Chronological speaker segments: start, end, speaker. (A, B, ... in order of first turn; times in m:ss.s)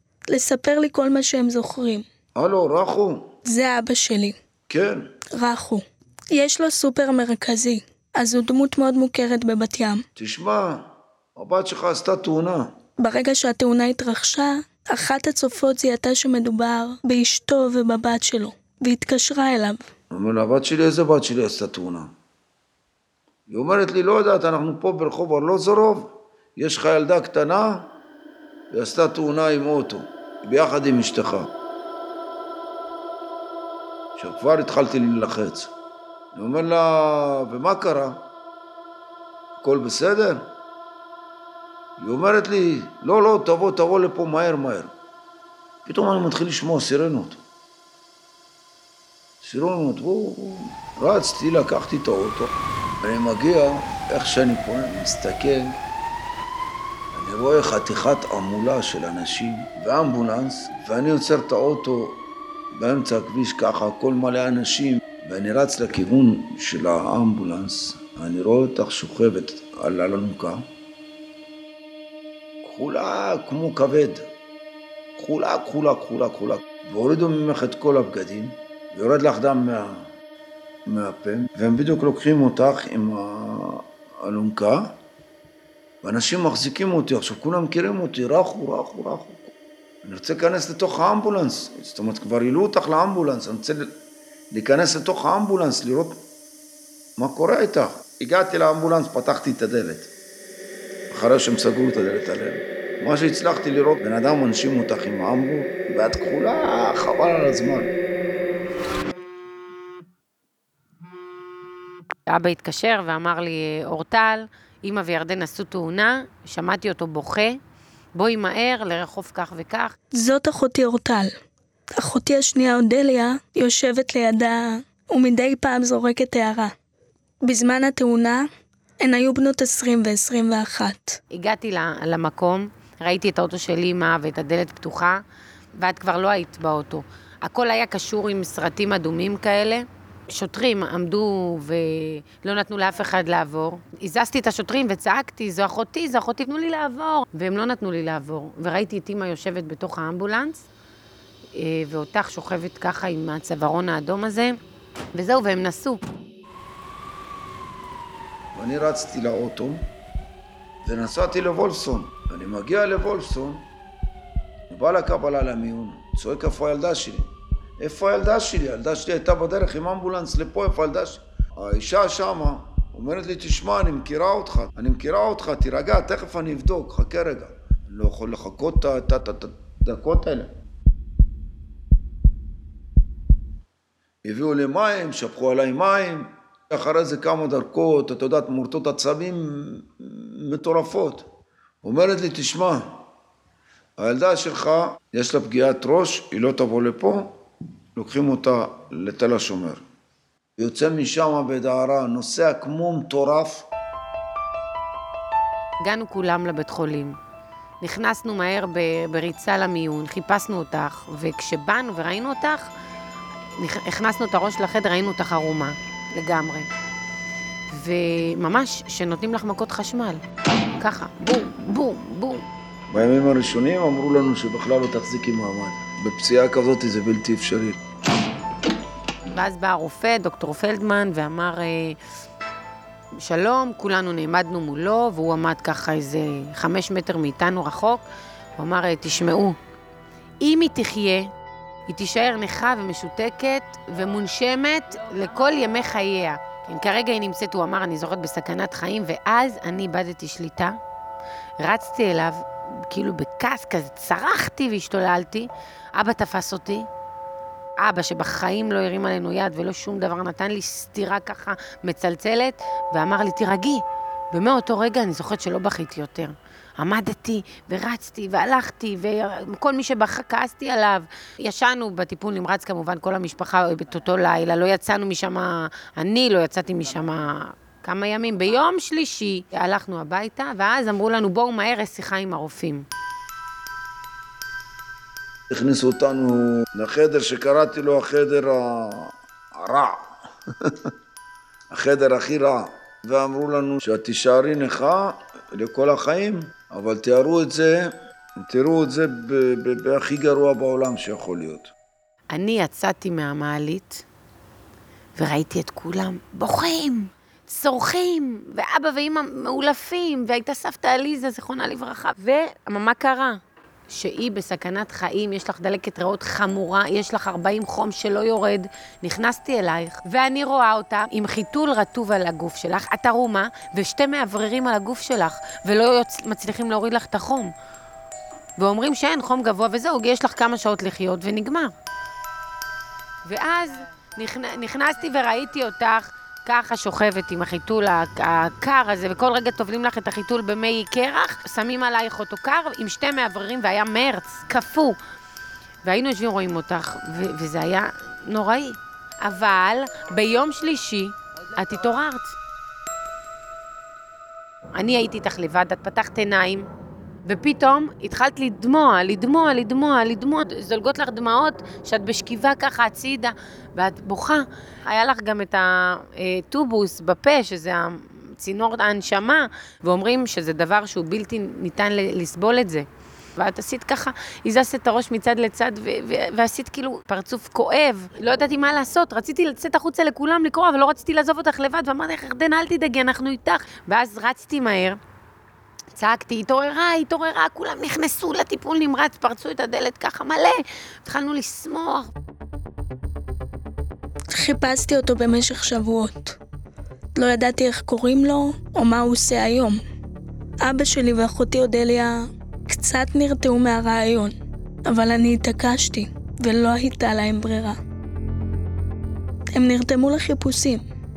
0:00.3-0:02.0 A
0:02.4-0:03.3 B
0:03.4-0:04.4 A
0:04.7-0:05.1 B
0:05.3-0:10.0 A
0:10.2-0:12.7 B
0:13.0-0:19.8 A
0:20.1-0:22.1 B
0:23.5-0:27.9 B
0:28.7-0:31.5 B
0:34.2-0:35.7 B
0:36.3-0:38.2 B
0:39.6-0:40.5 B
0:42.0-0:44.9 B
0:45.8-0:47.4 B
0:49.4-0:55.8 B
0:57.1-1:02.2 B
1:02.7-1:10.6 B
1:12.6-1:14.3 B
1:15.2-1:20.1 B
1:20.9-1:24.9 B
1:26.0-1:29.5 B
1:30.0-1:33.9 B
1:34.5-1:36.2 B
1:37.2-1:40.1 B
1:41.1-1:47.9 B
1:52.3-1:57.6 C
1:58.2-2:00.0 C
2:00.1-2:01.3 A
2:02.0-2:06.7 A
2:07.4-2:08.4 A
2:09.0-2:11.2 A
2:11.3-2:15.2 C
2:15.8-2:30.6 C
2:31.5-2:34.6 C
2:35.1-2:36.0 C
2:38.5-2:39.8 B
2:40.8-2:43.6 B
2:44.7-3:00.5 B
3:04.2-3:11.3 B
3:11.8-3:13.0 B
3:14.0-3:17.4 B
3:18.0-3:19.8 B
3:20.6-3:23.6 B
3:25.8-3:27.2 C
3:27.8-3:32.7 C
3:33.6-3:36.7 C
3:37.7-3:40.2 C
3:40.8-3:42.4 C
3:42.9-3:47.8 B
3:49.3-3:52.0 C
3:53.2-3:58.0 C
3:58.6-3:59.6 C
4:00.4-4:01.3 C
4:01.9-4:10.8 C
4:11.6-4:16.9 C
4:17.8-4:42.8 C
4:45.5-4:50.1 B
4:51.7-5:01.7 B
5:02.3-5:04.0 C
5:05.2-5:27.5 C
5:28.6-5:31.7 C
5:33.2-5:45.0 C
5:45.8-5:52.4 C
5:54.7-5:56.7 C
5:57.2-6:25.0 C
6:25.9-6:32.1 C
6:34.3-6:36.4 A
6:37.2-6:39.8 A
6:40.6-6:44.3 A
6:44.9-6:47.8 A
6:49.5-6:50.8 A